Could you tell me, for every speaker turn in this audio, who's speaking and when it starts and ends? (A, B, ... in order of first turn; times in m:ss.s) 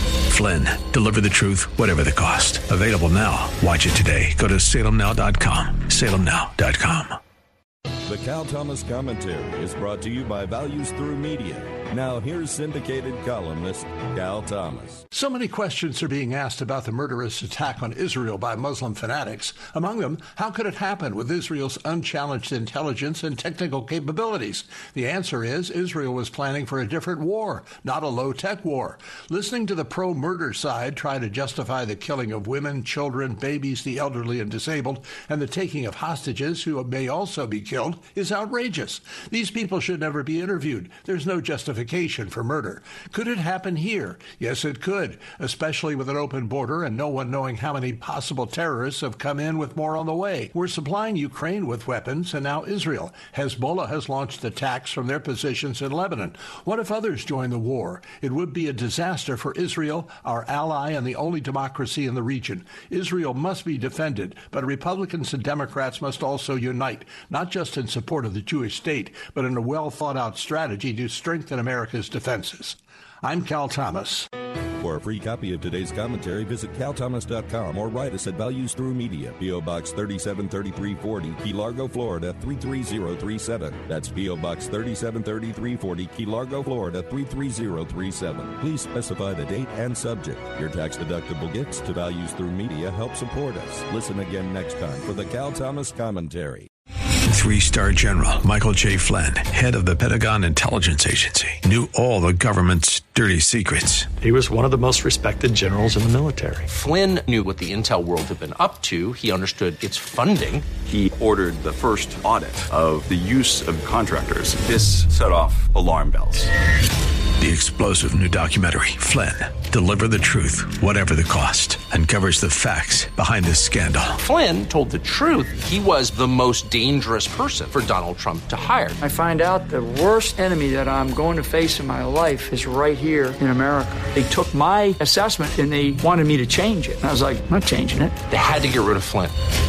0:00.3-0:07.2 A
0:08.0-0:15.0 B
0:15.1-1:14.3 C
1:14.8-1:36.7 B
1:37.3-1:44.1 A
1:44.2-1:46.6 D
1:46.7-1:50.7 E
1:50.9-1:56.5 F
1:57.4-2:04.2 A
2:04.2-2:09.0 E
2:09.0-2:18.1 G
2:18.3-2:19.3 E